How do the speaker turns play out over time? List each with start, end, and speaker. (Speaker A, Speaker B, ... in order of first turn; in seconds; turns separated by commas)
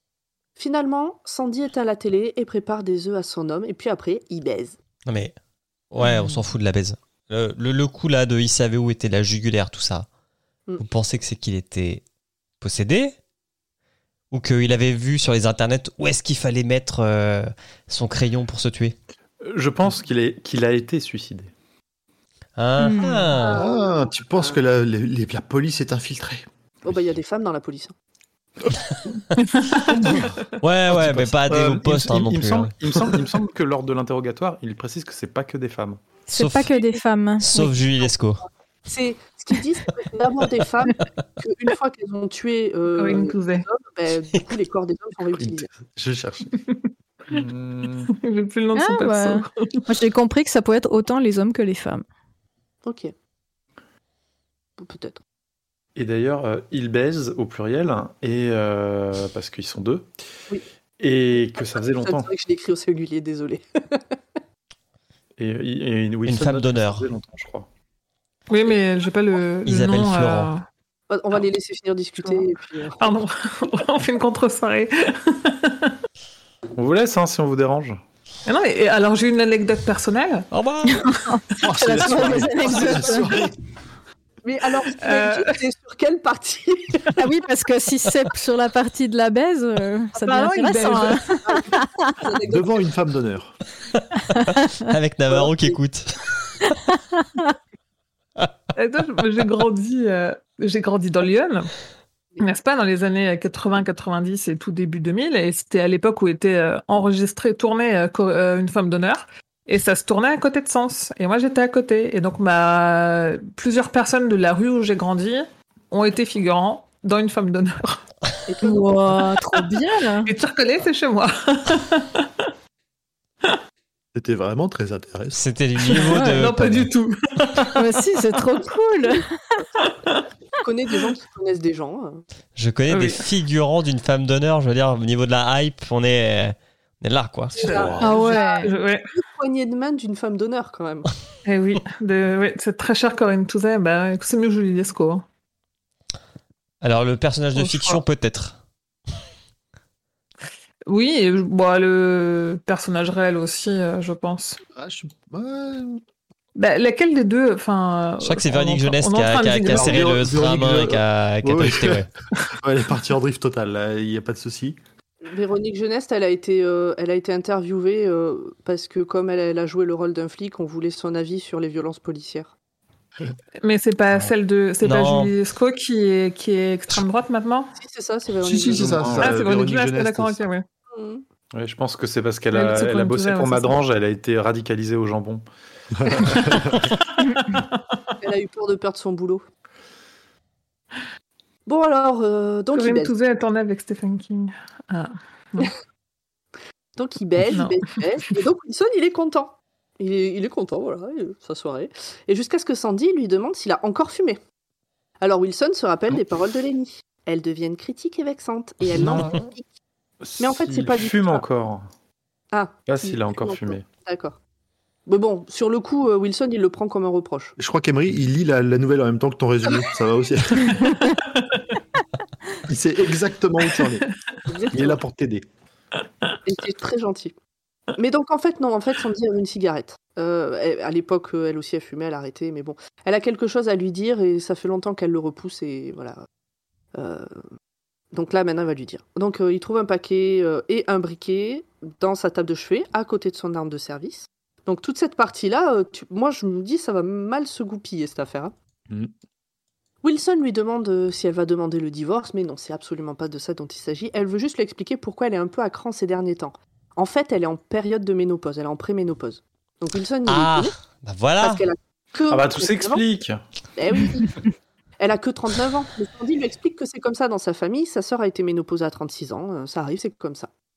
Speaker A: 0.6-4.8, Speaker B: 5.0-5.3, Speaker B: 5.9-10.1, Speaker B: 10.8-12.0, Speaker B: 12.6-13.1, Speaker B: 14.3-18.9, Speaker C: 19.4-21.5, Speaker B: 22.6-23.6, Speaker D: 22.8-23.4, Speaker A: 23.4-24.6, Speaker E: 23.5-26.4, Speaker A: 26.9-27.9, Speaker F: 29.4-29.9, Speaker E: 29.8-30.4, Speaker B: 30.6-32.7, Speaker C: 30.9-36.0, Speaker B: 36.3-36.8, Speaker D: 36.3-37.7, Speaker B: 37.4-38.4, Speaker A: 38.9-45.7, Speaker F: 42.9-43.7, Speaker E: 45.4-46.5, Speaker F: 46.7-47.4, Speaker C: 47.3-48.1, Speaker F: 48.0-49.8, Speaker D: 48.7-52.0, Speaker A: 52.9-53.1, Speaker A: 54.8-55.2, Speaker C: 56.0-60.1, Speaker C: 61.0-62.3, Speaker A: 61.6-64.2, Speaker C: 65.4-67.7, Speaker B: 66.2-67.1, Speaker F: 68.5-70.6, Speaker B: 69.7-70.5, Speaker A: 71.1-73.2, Speaker F: 73.0-76.0, Speaker C: 76.8-78.0, Speaker F: 78.5-80.5, Speaker B: 80.5-81.0, Speaker D: 81.1-83.4, Speaker E: 81.6-83.5, Speaker A: 82.4-83.2, Speaker A: 84.4-87.2, Speaker F: 85.0-85.6, Speaker D: 87.2-92.1, Speaker F: 90.2-91.3, Speaker A: 91.4-92.8, Speaker E: 92.4-93.5, Speaker B: 94.8-96.7, Speaker F: 98.7-101.7, Speaker F: 102.4-118.0, Speaker A: 118.5-119.0, Speaker D: 118.6-120.3, Speaker F: 120.2-122.5, Speaker E: 124.1-125.4, Speaker B: 125.3-126.9, Speaker F: 125.8-127.9, Speaker D: 127.7-129.3, Speaker F: 129.8-130.2, Speaker A: 130.6-132.2, Speaker B: 132.6-137.7, Speaker F: 132.9-133.3, Speaker A: 137.6-141.1, Speaker F: 137.6-139.1, Speaker D: 138.0-138.7, Speaker F: 141.4-145.2, Speaker B: 146.8-148.6, Speaker F: 147.5-148.0, Speaker F: 150.9-154.6, Speaker E: 154.7-156.0, Speaker F: 156.6-160.2, Speaker B: 158.2-162.1, Speaker E: 159.7-164.8, Speaker A: 165.2-172.5, Speaker F: 173.6-177.7, Speaker B: 174.8-175.3, Speaker A: 177.7-179.2, Speaker E: 178.4-180.5, Speaker C: 178.7-179.4, Speaker F: 179.2-180.7, Speaker A: 180.9-181.2, Speaker C: 181.5-185.4, Speaker F: 182.5-183.8, Speaker E: 185.9-186.9, Speaker F: 186.2-187.9, Speaker A: 188.2-189.4, Speaker A: 191.7-193.1, Speaker F: 192.7-195.7, Speaker A: 196.9-204.4, Speaker F: 197.5-197.8, Speaker A: 205.2-209.7, Speaker C: 209.0-209.3, Speaker C: 210.2-211.9, Speaker A: 210.4-211.4, Speaker A: 212.5-214.4, Speaker C: 212.9-213.8, Speaker A: 215.1-217.6, Speaker E: 217.6-221.0, Speaker E: 222.7-224.1, Speaker A: 224.5-225.0, Speaker E: 224.7-225.4, Speaker A: 226.4-227.3, Speaker A: 227.9-236.2, Speaker A: 236.9-237.3, Speaker A: 238.1-248.5, Speaker A: 250.0-260.7, Speaker B: 260.2-261.6, Speaker A: 261.4-263.0, Speaker C: 262.3-263.4, Speaker A: 263.8-264.4, Speaker A: 265.0-270.5